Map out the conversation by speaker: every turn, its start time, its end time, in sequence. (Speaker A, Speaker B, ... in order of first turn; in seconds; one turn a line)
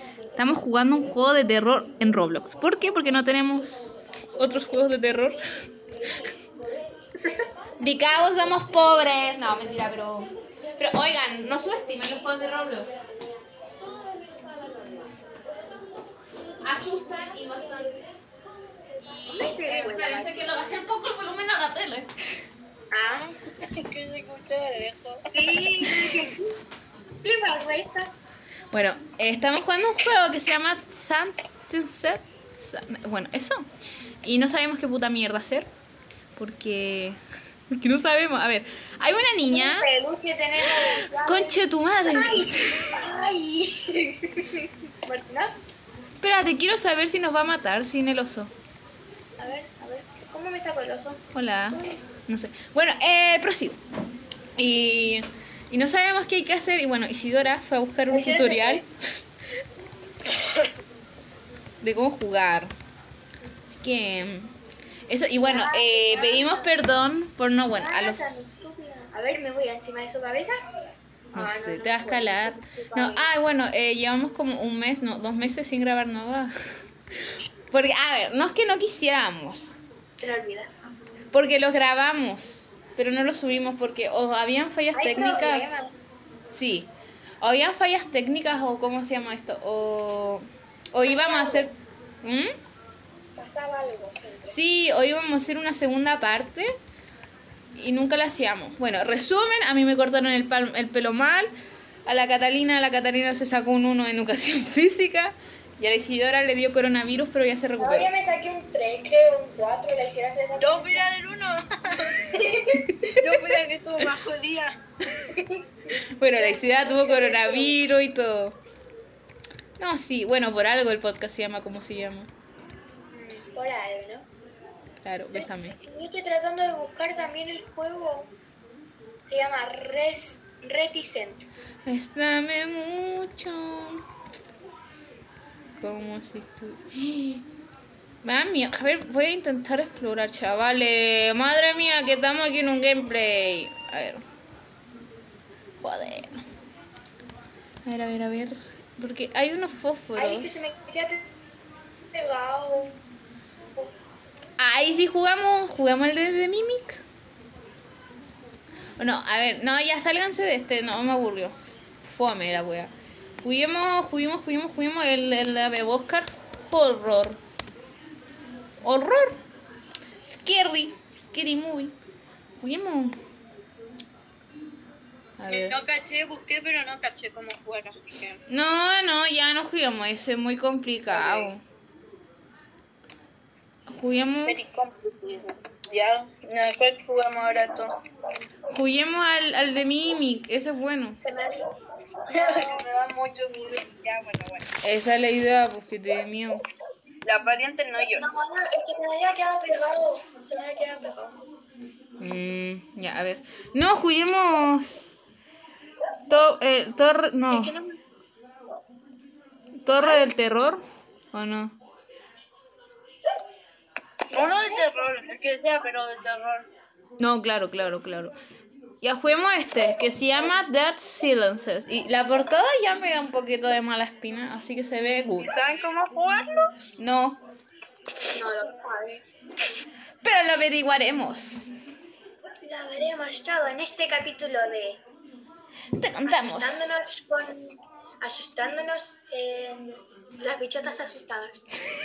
Speaker A: 0.4-5.4
Speaker A: 7.8-13.0
Speaker A: 16.6-18.1
Speaker A: 19.0-22.1
Speaker B: 19.3-20.4
Speaker B: 22.9-23.3
Speaker C: 23.4-25.3
Speaker B: 25.3-26.6
Speaker B: 27.2-28.1
Speaker A: 28.7-33.7
Speaker A: 34.2-35.7
Speaker A: 36.4-37.2
Speaker A: 37.7-39.9
Speaker B: 39.5-41.6
Speaker A: 41.2-42.9
Speaker B: 42.1-44.5
Speaker B: 45.1-45.6
Speaker A: 46.2-48.5
Speaker B: 49.4-52.0
Speaker A: 51.3-53.8
Speaker A: 54.6-58.9
Speaker B: 58.1-58.9
Speaker C: 60.3-60.7
Speaker A: 61.8-62.7
Speaker A: 63.7-64.5
Speaker A: 65.1-68.5
Speaker B: 65.4-66.7
Speaker B: 67.8-70.6
Speaker B: 71.3-73.3
Speaker A: 71.3-76.5
Speaker A: 77.7-79.7
Speaker B: 80.2-80.7
Speaker A: 81.3-85.7
Speaker B: 84.9-86.1
Speaker A: 86.5-86.9
Speaker A: 87.4-92.6
Speaker B: 91.0-91.7
Speaker B: 93.4-94.6
Speaker A: 94.5-96.7
Speaker A: 97.8-101.5
Speaker A: 102.1-108.1
Speaker B: 107.8-111.1
Speaker C: 110.6-112.3
Speaker B: 112.3-113.2
Speaker C: 113.2-114.8
Speaker A: 116.2-118.6
Speaker B: 116.3-117.8
Speaker A: 119.8-122.3
Speaker B: 123.1-124.3
Speaker A: 125.0-125.8
Speaker B: 125.3-128.3
Speaker B: 129.3-131.5
Speaker A: 131.9-134.0
Speaker A: 135.8-137.4
Speaker A: 138.2-144.2
Speaker A: 145.8-146.4
Speaker A: 147.8-150.5
Speaker B: 150.2-151.4
Speaker B: 152.1-153.0
Speaker A: 154.6-157.0
Speaker A: 159.0-162.9
Speaker A: 163.4-167.4
Speaker A: 168.8-169.4
Speaker A: 170.2-171.9
Speaker A: 172.6-173.2
Speaker A: 175.4-175.8
Speaker C: 175.5-178.4
Speaker A: 178.5-181.6
Speaker C: 181.1-181.5
Speaker A: 183.9-184.6
Speaker C: 184.4-188.0
Speaker A: 188.7-191.2
Speaker B: 191.2-191.8
Speaker B: 192.3-192.8
Speaker C: 192.3-194.8
Speaker A: 194.8-196.6
Speaker C: 197.2-198.2
Speaker B: 198.1-201.4
Speaker A: 202.2-205.1
Speaker A: 206.3-207.8
Speaker B: 207.5-208.0
Speaker A: 209.8-211.8
Speaker B: 210.0-210.2
Speaker B: 214.3-215.0
Speaker C: 214.3-216.7
Speaker A: 217.2-218.3
Speaker A: 219.0-225.6
Speaker C: 225.4-226.8
Speaker A: 227.0-227.4
Speaker B: 228.3-229.2
Speaker A: 230.2-231.7
Speaker B: 232.6-235.0
Speaker A: 236.0-236.9
Speaker B: 236.3-241.7